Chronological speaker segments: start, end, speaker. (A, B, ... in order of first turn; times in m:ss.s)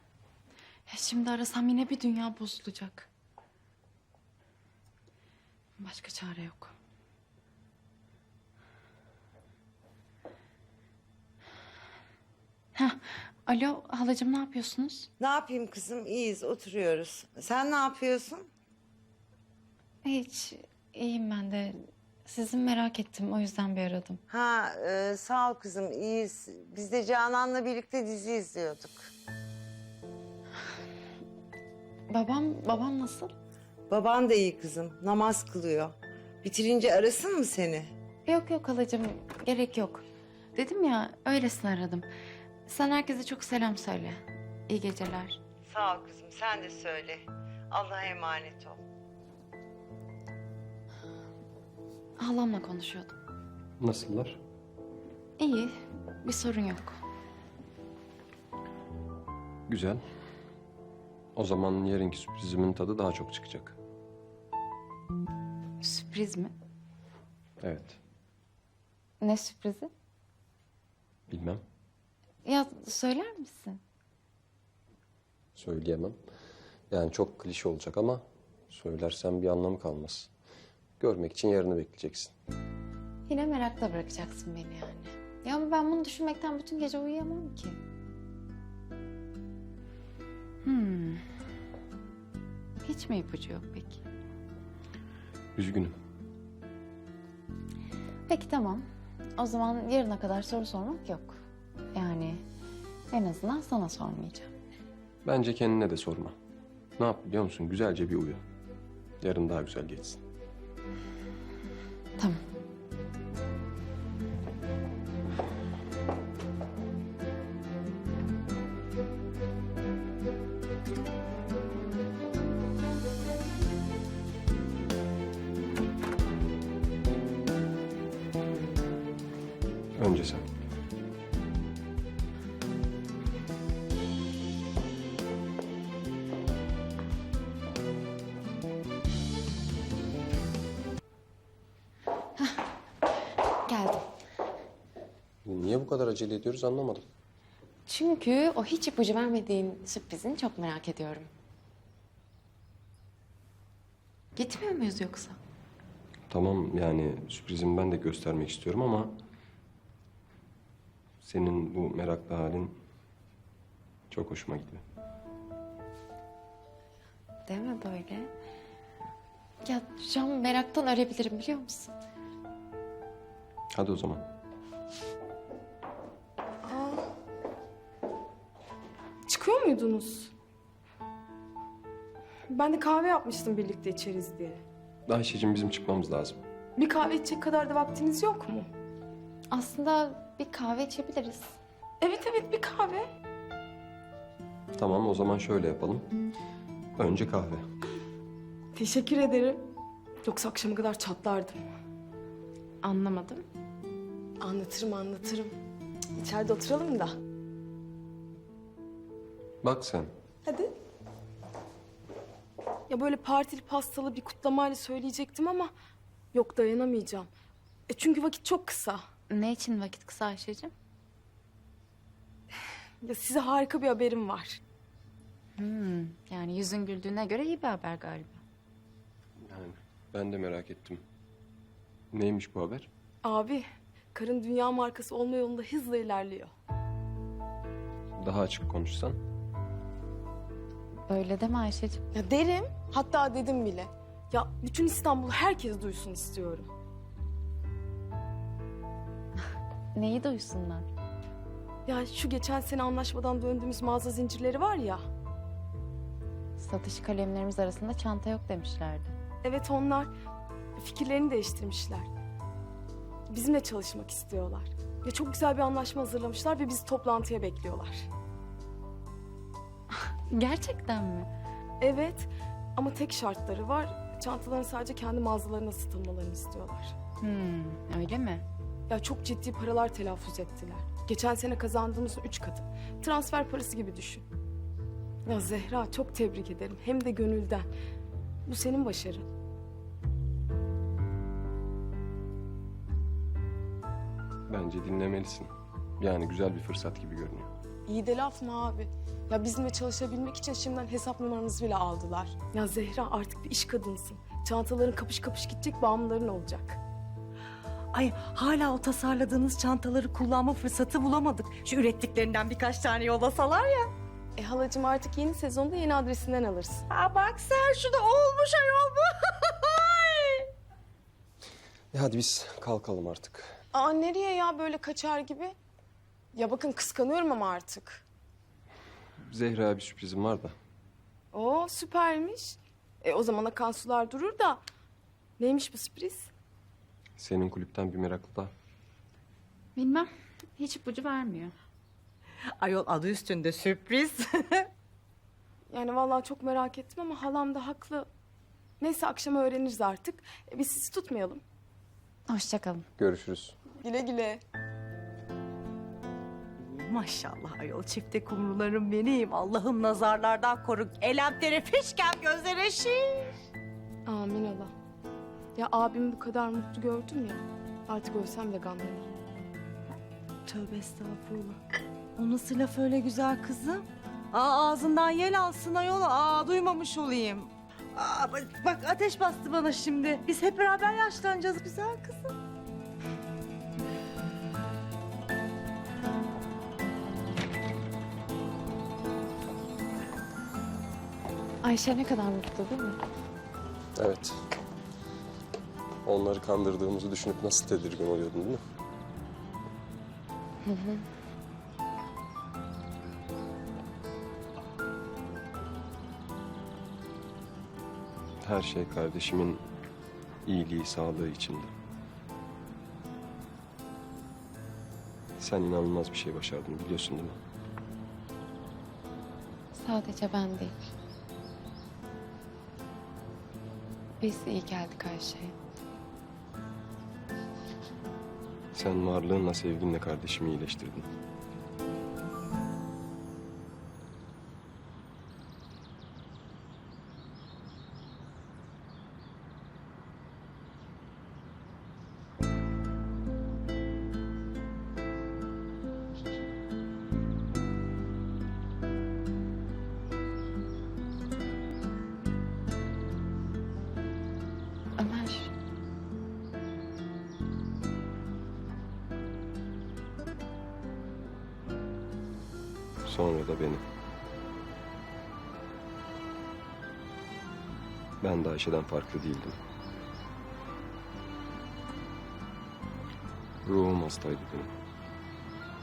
0:00.9-0:03.1 A
0:05.8-0:06.7 A
0:12.7-0:15.1 A
0:15.2-0:18.5 B
0:20.0-0:24.2 A
0:24.3-0:29.1 B
0:32.1-0:33.3 A
0:33.9-0:37.9 B
0:38.2-0:40.0 A
0:40.5-0:42.1 A
0:42.6-0:45.4 A
0:45.6-0:48.8 B
0:52.2-0:53.2 A
0:53.8-0:54.4 C
0:55.4-0:57.0 A
0:59.7-1:00.0 C
1:01.3-1:03.8 C
1:05.8-1:06.5 A
1:07.6-1:08.0 C
1:09.2-1:09.9 A
1:11.3-1:11.6 C
1:12.4-1:13.8 A
1:15.6-1:16.2 C
1:16.9-1:20.3 C
1:21.0-1:22.3 C
1:23.3-1:27.8 A
1:30.6-1:31.2 A
1:32.8-1:34.0 A
1:35.6-1:35.9 C
1:38.3-1:41.4 A
1:41.9-1:42.4 A
1:43.1-1:44.5 A
1:45.2-1:46.3 C
1:47.0-1:48.4 C
1:49.2-1:50.2 C
2:10.0-2:10.4 C
2:23.6-2:24.1 A
2:25.4-2:27.0 C
2:27.8-2:31.3 A
2:34.4-2:35.4 A
2:36.3-2:39.2 C
2:41.2-2:42.8 C
2:44.1-2:44.8 C
2:47.5-2:48.3 A
2:49.6-2:51.9 A
2:53.7-2:54.2 C
2:56.6-2:57.0 D
2:59.3-3:00.3 D
3:02.5-3:04.6 D
3:05.1-3:06.4 C
3:06.8-3:08.7 D
3:09.5-3:11.6 A
3:12.0-3:13.0 D
3:14.8-3:16.1 C
3:17.0-3:17.7 C
3:18.7-3:19.6 D
3:20.2-3:21.6 D
3:22.8-3:23.4 A
3:24.4-3:25.5 D
3:26.2-3:27.1 D
3:29.6-3:30.1 C
3:30.4-3:30.7 D
3:32.9-3:35.7 D
3:36.3-3:37.3 D
3:37.9-3:39.0 D
3:39.3-3:40.7 A
3:43.0-3:44.6 D
3:45.6-3:48.4 A
3:49.4-3:51.0 C
3:52.1-3:52.9 C
3:53.2-3:56.5 D
3:58.2-3:59.2 C
4:01.1-4:02.1 A
4:02.1-4:06.7 D
4:09.9-4:10.9 A
4:11.9-4:15.0 D
4:16.6-4:19.1 A
4:19.4-4:20.1 D
4:20.8-4:22.1 D
4:23.3-4:28.1 D
4:29.9-4:31.3 A
4:31.8-4:36.9 D
4:37.2-4:38.4 A
4:38.9-4:44.2 D
4:45.2-4:47.7 D
4:48.5-4:49.2 D
4:54.5-4:57.5 C
4:57.9-5:06.8 D
5:07.9-5:13.9 E
5:14.4-5:16.8 D
5:16.9-5:20.5 E
5:21.9-5:23.5 C
5:23.7-5:25.5 D
5:26.4-5:28.0 D
5:29.2-5:30.5 C
5:31.3-5:34.6 D
5:35.4-5:36.3 D
5:37.2-5:38.5 C
5:39.8-5:41.5 A
5:42.6-5:44.7 E
5:45.7-5:48.1 D
5:48.8-5:51.4 D
5:52.3-5:52.9 A
5:53.0-5:53.6 C
5:53.8-5:54.4 D
5:56.6-6:03.3 E
6:04.0-6:04.7 D
6:05.6-6:09.1 D
6:10.5-6:11.6 E
6:12.2-6:22.4 E
6:31.6-6:33.0 A
6:34.0-6:34.5 C
6:36.0-6:38.6 C
6:40.6-6:41.1 A
6:48.4-6:49.6 C
6:50.4-6:51.7 C
6:55.4-6:57.4 C
6:59.7-7:00.7 A
7:04.2-7:05.5 A
7:08.7-7:11.1 C
7:35.0-7:35.5 A
7:43.0-7:43.8 C
7:48.2-7:49.6 C
7:53.6-7:54.7 C